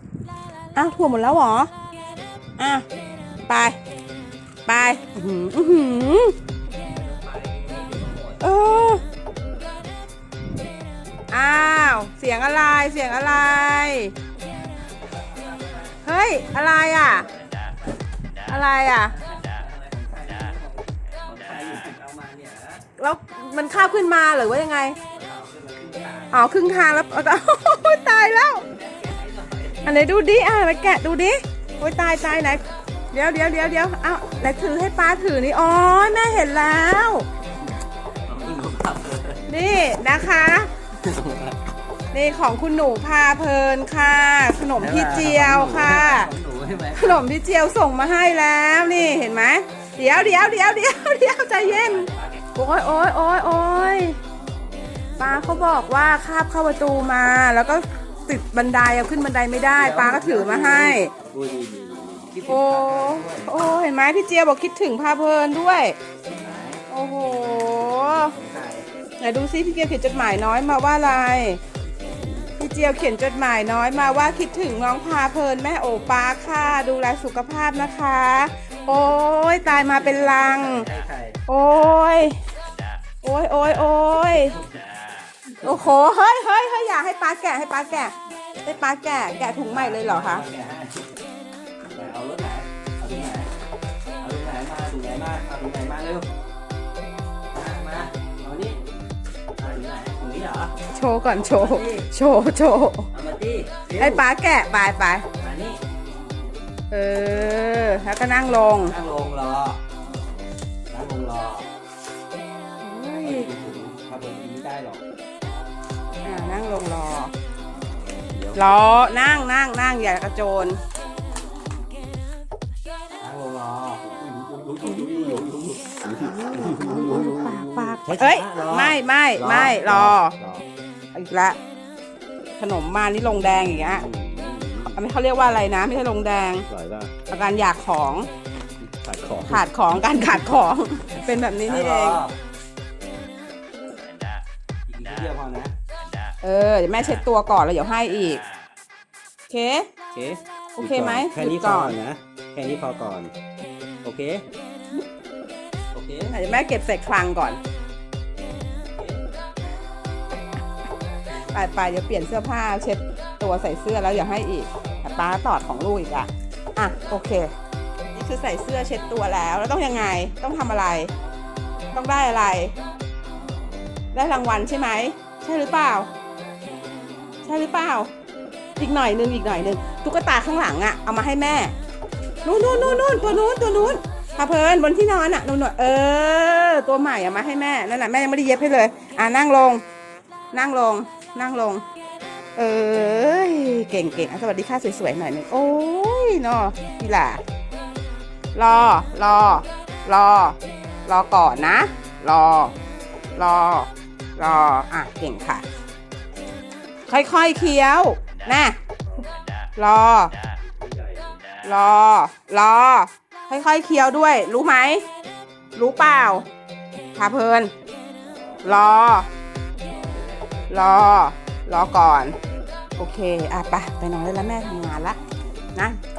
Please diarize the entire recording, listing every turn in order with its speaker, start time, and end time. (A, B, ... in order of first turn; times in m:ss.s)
0:00.8-0:01.7 A
0:02.6-0:02.9 A
0:03.5-0:03.8 A
0:04.7-0:06.4 A
0:06.8-0:08.4 B
0:08.4-0:09.0 A
0:11.3-0:14.2 A
0:15.0-0:16.0 B
0:16.0-0:17.3 A
0:16.9-0:17.8 B
0:18.5-0:19.2 A
0:19.1-0:22.9 B
0:23.0-0:25.0 A
0:25.1-0:26.5 B
0:26.3-0:28.7 A
0:28.6-0:29.8 B
0:29.8-0:37.3 A
0:38.3-0:39.4 B
0:39.4-0:40.7 A
0:41.0-0:41.6 B
0:42.1-0:46.3 A
0:44.8-0:47.2 B
0:47.0-0:54.2 A
0:51.6-0:52.4 B
0:55.2-1:01.1 A
0:59.8-1:03.6 B
1:02.5-1:06.0 A
1:06.3-1:06.8 B
1:06.9-1:08.3 A
1:07.8-1:08.9 B
1:09.2-1:11.6 A
1:12.6-1:20.9 A
1:19.9-1:21.4 B
1:21.5-1:22.4 A
1:23.2-1:24.6 A
1:25.6-1:25.9 B
1:25.6-1:30.4 A
1:29.7-1:31.1 B
1:31.9-1:33.5 B
1:34.2-1:36.3 B
1:37.5-1:38.8 B
1:39.6-1:40.7 B
1:40.9-1:43.1 A
1:41.4-1:42.1 B
1:43.1-1:44.2 B
1:44.0-1:45.3 A
1:45.4-1:45.8 B
1:46.9-1:49.0 A
1:48.9-1:49.8 B
1:50.9-1:51.7 B
1:52.8-1:53.5 A
1:53.2-1:55.0 B
1:56.2-1:57.3 A
1:58.3-1:58.8 B
1:58.5-2:00.8 A
2:03.2-2:10.7 B
2:04.8-2:05.4 A
2:06.1-2:10.4 A
2:11.1-2:11.6 A
2:12.6-2:14.0 A
2:13.8-2:15.0 B
2:14.9-2:16.7 A
2:16.7-2:17.1 B
2:17.3-2:18.3 A
2:18.8-2:19.7 B
2:19.5-2:22.2 A
2:21.6-2:22.4 B
2:24.9-2:25.7 B
2:26.4-2:28.4 A
2:29.5-2:29.9 A
2:30.1-2:33.3 B
2:30.8-2:32.0 A
2:34.0-2:34.4 B
2:35.9-2:36.4 B
2:36.3-2:37.6 A
2:39.0-2:39.2 B
2:41.3-2:47.5 A
2:48.1-2:51.1 A
2:51.9-2:52.8 A
2:54.1-2:56.1 A
2:57.4-2:58.1 A
2:58.8-3:01.7 A
3:02.4-3:09.8 A
3:02.5-3:03.6 B
3:10.5-3:11.8 A
3:12.6-3:17.4 A
3:18.6-3:22.8 A
3:23.4-3:25.6 A
3:27.1-3:28.8 A
3:29.8-3:30.3 A
3:30.7-3:31.4 B
3:31.6-3:35.0 A
3:35.8-3:36.5 A
3:37.2-3:37.7 A
3:38.2-3:38.9 B
3:38.6-3:39.3 A
3:39.8-3:40.7 B
3:40.7-3:42.4 A
3:43.0-3:45.2 A